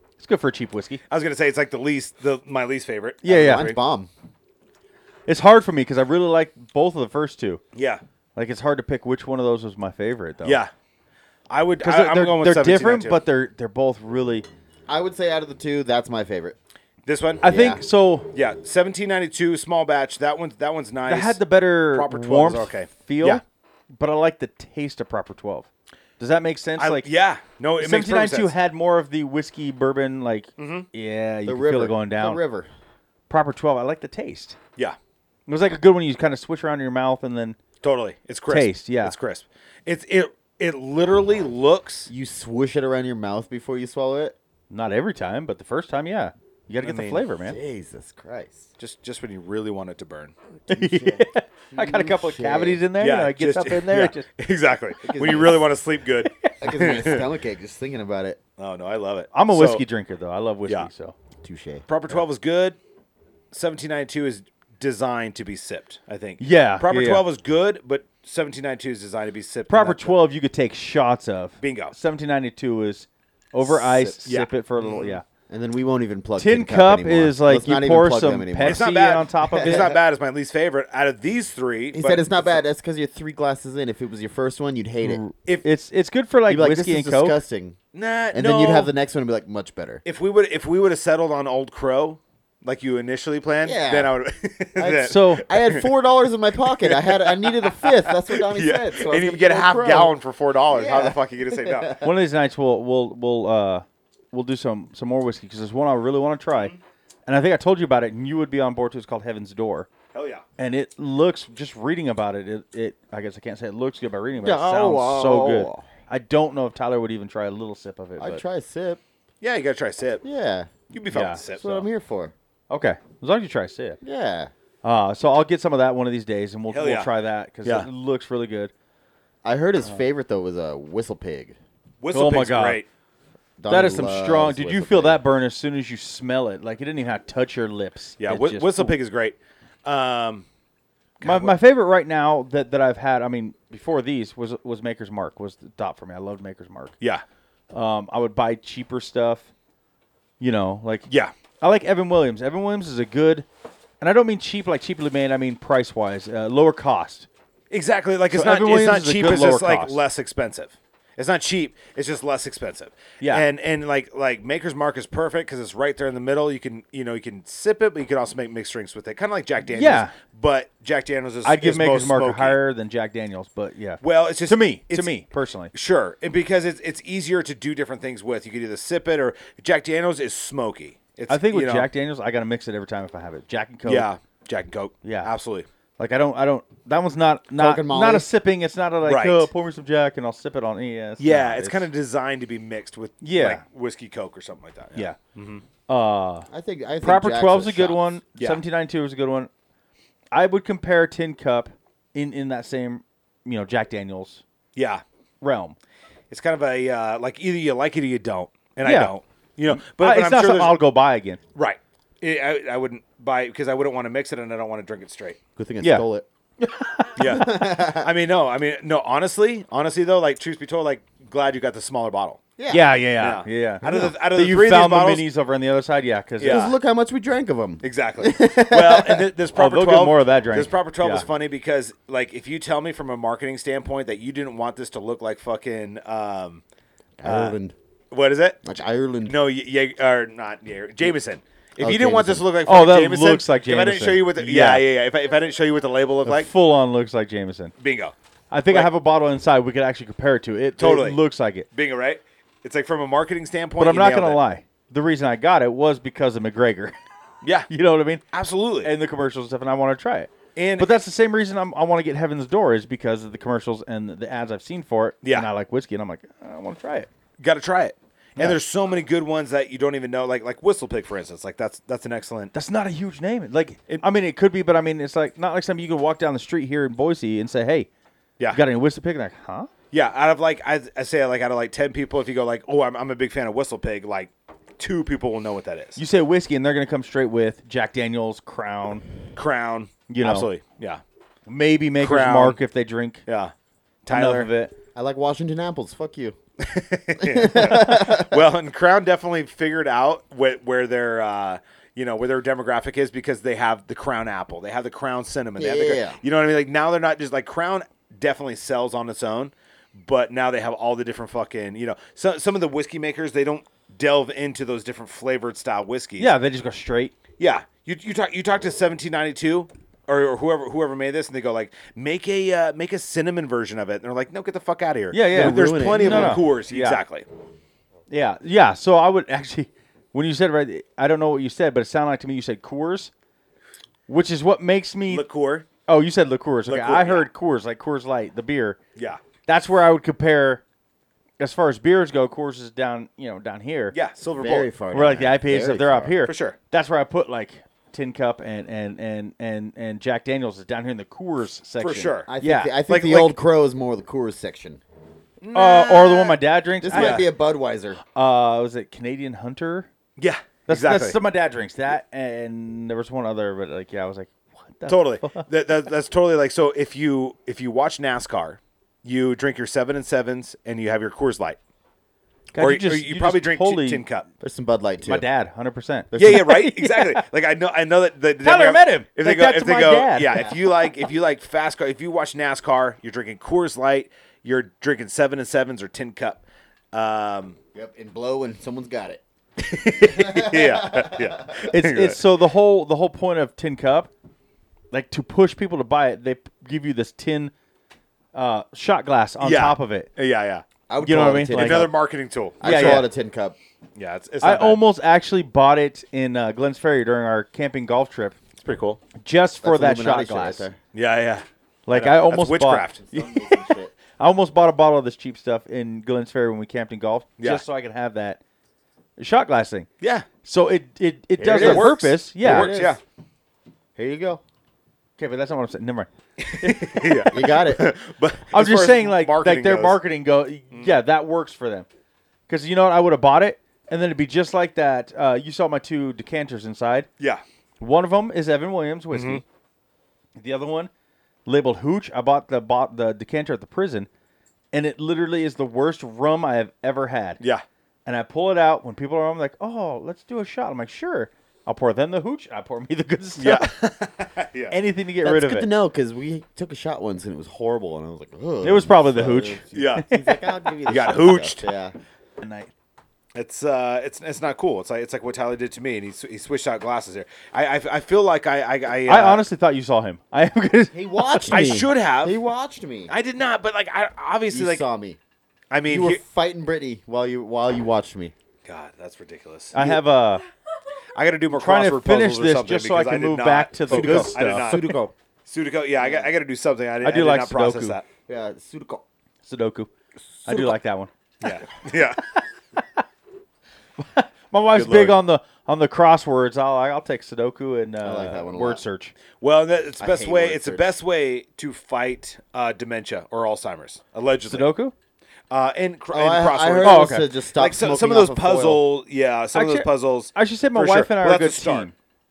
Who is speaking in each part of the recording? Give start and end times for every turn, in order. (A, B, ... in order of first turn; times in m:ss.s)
0:00.2-0:01.0 A
0:01.1-0:03.8 B
0:03.2-0:03.7 A
0:03.3-0:04.1 C
0:05.3-0:07.6 A
0:07.7-0:08.0 B
0:08.4-0:10.6 A
0:10.4-0:10.7 B
0:11.5-0:13.2 B
0:11.8-0:14.4 A
0:14.9-0:16.6 C
0:17.0-0:17.4 B
0:17.4-0:18.3 A
0:17.4-0:17.8 C
0:18.3-0:21.4 B
0:21.0-0:25.7 A
0:21.9-0:23.4 B
0:26.2-0:27.1 A
0:26.8-0:28.5 B
0:27.8-0:32.4 A
0:30.6-0:30.9 B
0:31.4-0:32.7 C
0:33.3-0:34.6 A
0:35.5-0:37.6 A
0:37.8-0:42.1 B
0:38.5-0:39.1 A
0:42.1-0:44.4 C
0:44.7-0:47.6 A
0:46.8-0:47.2 B
0:47.4-0:48.7 C
0:48.8-0:50.3 B
0:50.7-0:52.8 C
0:50.7-0:54.2 A
0:53.0-0:57.2 B
0:55.0-0:55.7 C
0:56.2-0:56.6 A
0:56.6-0:58.4 C
0:58.6-0:59.8 B
0:59.3-1:01.1 A
1:01.4-1:01.8 C
1:01.9-1:02.8 B
1:03.5-1:10.2 B
1:06.4-1:07.2 A
1:09.7-1:15.2 A
1:11.6-1:11.9 B
1:13.7-1:14.2 C
1:14.2-1:15.2 B
1:15.5-1:18.8 C
1:16.4-1:19.9 A
1:18.6-1:22.3 B
1:19.5-1:20.0 C
1:21.9-1:25.2 C
1:25.0-1:27.4 A
1:26.5-1:27.8 C
1:27.9-1:28.9 B
1:28.3-1:30.0 C
1:30.0-1:35.9 B
1:33.6-1:34.1 C
1:34.8-1:40.1 C
1:35.0-1:35.4 A
1:36.8-1:42.0 B
1:40.7-1:42.0 C
1:42.0-1:46.7 A
1:47.3-1:49.9 A
1:50.1-1:50.4 B
1:50.6-1:58.4 A
1:54.4-1:55.9 C
1:58.2-1:59.0 C
1:59.4-2:00.2 B
2:00.2-2:00.7 C
2:00.9-2:01.9 B
2:01.1-2:01.4 A
2:01.6-2:02.3 C
2:02.7-2:04.0 A
2:04.0-2:04.5 C
2:04.8-2:08.7 A
2:06.7-2:07.1 B
2:09.4-2:11.6 C
2:12.0-2:12.9 B
2:12.1-2:12.8 A
2:13.6-2:15.2 C
2:13.7-2:18.9 A
2:18.2-2:20.4 B
2:21.2-2:21.5 B
2:21.2-2:26.9 A
2:27.7-2:29.5 A
2:30.4-2:31.1 A
2:31.6-2:33.4 A
2:34.0-2:37.3 A
2:37.7-2:52.6 B
2:38.3-2:40.0 A
2:49.7-2:50.1 A
2:51.4-2:55.7 A
2:54.0-2:55.2 B
2:55.7-3:01.9 B
3:01.3-3:04.1 A
3:03.8-3:05.7 B
3:05.0-3:05.3 A
3:06.0-3:11.8 A
3:07.6-3:08.3 C
3:09.0-3:09.5 B
3:11.2-3:15.6 B
3:13.2-3:13.6 A
3:15.9-3:16.5 A
3:16.5-3:18.2 C
3:17.0-3:19.5 A
3:20.3-3:24.4 A
3:24.8-3:25.0 B
3:25.4-3:25.8 A
3:26.3-3:30.8 B
3:28.8-3:29.1 A
3:29.7-3:31.4 A
3:31.5-3:35.4 B
3:35.6-3:36.2 C
3:35.8-3:36.0 A
3:36.6-3:37.4 A
3:37.2-3:42.4 B
3:37.2-3:38.1 C
3:42.6-3:42.9 C
3:42.7-3:46.6 A
3:43.2-3:45.2 B
3:43.8-3:44.1 C
3:46.4-3:46.7 B
3:46.4-3:49.2 C
3:47.8-3:56.6 B
3:49.5-3:51.2 A
3:57.2-3:57.7 C
3:57.2-3:57.6 B
3:58.1-3:58.6 B
3:58.6-3:59.4 C
3:59.2-4:06.5 B
4:01.8-4:02.4 C
4:02.6-4:04.8 A
4:06.2-4:07.7 A
4:07.8-4:08.1 B
4:08.5-4:11.7 A
4:10.8-4:11.2 B
4:11.7-4:14.4 B
4:13.8-4:16.9 A
4:17.4-4:17.7 B
4:17.7-4:18.2 A
4:18.3-4:18.9 B
4:18.8-4:27.1 A
4:20.6-4:20.9 B
4:25.2-4:25.5 B
4:27.4-4:32.5 B
4:32.5-4:37.9 A
4:38.5-4:39.7 A
4:39.9-4:46.0 B
4:46.0-4:49.0 A
4:49.4-4:51.0 B
4:50.1-4:50.5 A
4:51.5-4:53.2 A
4:52.0-4:52.6 B
4:53.3-4:53.5 B
4:54.0-4:54.5 B
4:54.1-4:54.7 A
4:54.9-4:56.4 C
4:56.6-5:16.3 B
4:57.2-4:58.4 C
5:05.6-5:06.2 C
5:16.2-5:17.1 A
5:17.4-5:27.2 B
5:25.1-5:27.0 A
5:25.3-5:26.4 C
5:28.1-5:33.1 A
5:34.1-5:35.2 A
5:35.1-5:35.7 B
5:35.8-5:38.8 A
5:36.7-5:37.2 B
5:39.0-5:39.2 B
5:39.4-5:40.6 A
5:41.4-5:43.9 A
5:43.9-5:44.7 B
5:44.4-5:46.2 C
5:44.9-5:52.8 A
5:46.2-5:46.6 B
5:51.8-5:52.3 B
5:52.3-5:54.8 C
5:52.9-5:53.3 B
5:55.4-5:56.4 B
5:55.5-5:57.3 A
5:56.8-5:58.0 C
5:56.9-5:57.2 B
5:58.1-5:59.9 A
6:00.2-6:01.2 B
6:00.7-6:05.4 A
6:04.9-6:11.6 B
6:12.5-6:14.0 A
6:12.6-6:14.3 B
6:14.4-6:15.2 C
6:15.0-6:17.2 A
6:16.1-6:16.5 C
6:16.1-6:27.6 B
6:18.4-6:20.5 A
6:27.7-6:29.2 C
6:29.6-6:32.2 B
6:30.0-6:31.4 C
6:31.7-6:34.1 A
6:34.9-6:37.5 A
6:38.3-6:40.1 A
6:39.4-6:40.6 B
6:40.9-6:41.9 C
6:41.0-6:41.9 A
6:41.5-6:43.1 B
6:42.6-6:43.6 C
6:42.6-6:43.1 A
6:44.0-6:44.8 B
6:44.4-6:48.4 A
6:48.6-6:49.0 B
6:49.2-6:50.7 A
6:49.6-6:50.8 C
6:50.9-6:53.0 B
6:51.9-6:53.3 A
6:53.0-6:53.9 C
6:54.2-6:58.4 A
6:59.2-6:59.9 A
7:00.0-7:00.2 B
7:00.4-7:02.8 A
7:01.4-7:03.0 C
7:01.4-7:03.0 B
7:04.0-7:04.4 C
7:05.2-7:06.1 A
7:06.4-7:10.0 B
7:06.6-7:07.2 A
7:07.3-7:07.9 C
7:08.5-7:11.9 A
7:12.5-7:17.1 A
7:17.8-7:19.4 A
7:19.1-7:19.4 B
7:20.4-7:20.9 A
7:21.4-7:24.1 A
7:24.7-7:27.4 A
7:28.0-7:33.7 A
7:33.4-7:34.7 B
7:34.7-7:35.7 A
7:35.2-7:41.9 C
7:38.6-7:40.7 A
7:39.7-7:40.1 B
7:40.8-7:41.7 B
7:42.4-7:42.7 A
7:43.3-7:49.4 B
7:49.0-7:51.6 A
7:50.9-7:53.1 C
7:51.5-7:52.4 B
7:53.1-7:54.8 B
7:54.5-7:55.2 C
7:55.7-7:56.2 B
7:55.8-7:58.3 C
7:58.6-7:59.8 B
7:59.7-8:00.4 A
8:01.1-8:04.8 B
8:01.5-8:04.7 A
8:03.9-8:05.1 C
8:05.4-8:08.0 B
8:06.0-8:06.3 C
8:07.0-8:08.0 A
8:08.3-8:09.0 C
8:09.4-8:09.9 A
8:10.4-8:10.7 B
8:10.4-8:11.1 A
8:11.4-8:12.2 B
8:12.8-8:13.0 A
8:14.0-8:19.1 A
8:14.7-8:15.2 B
8:18.0-8:18.8 C
8:19.4-8:24.7 B
8:20.0-8:20.9 C
8:24.5-8:24.9 A
8:25.5-8:31.9 B
8:26.1-8:28.8 C
8:26.8-8:27.3 A
8:29.5-8:31.9 A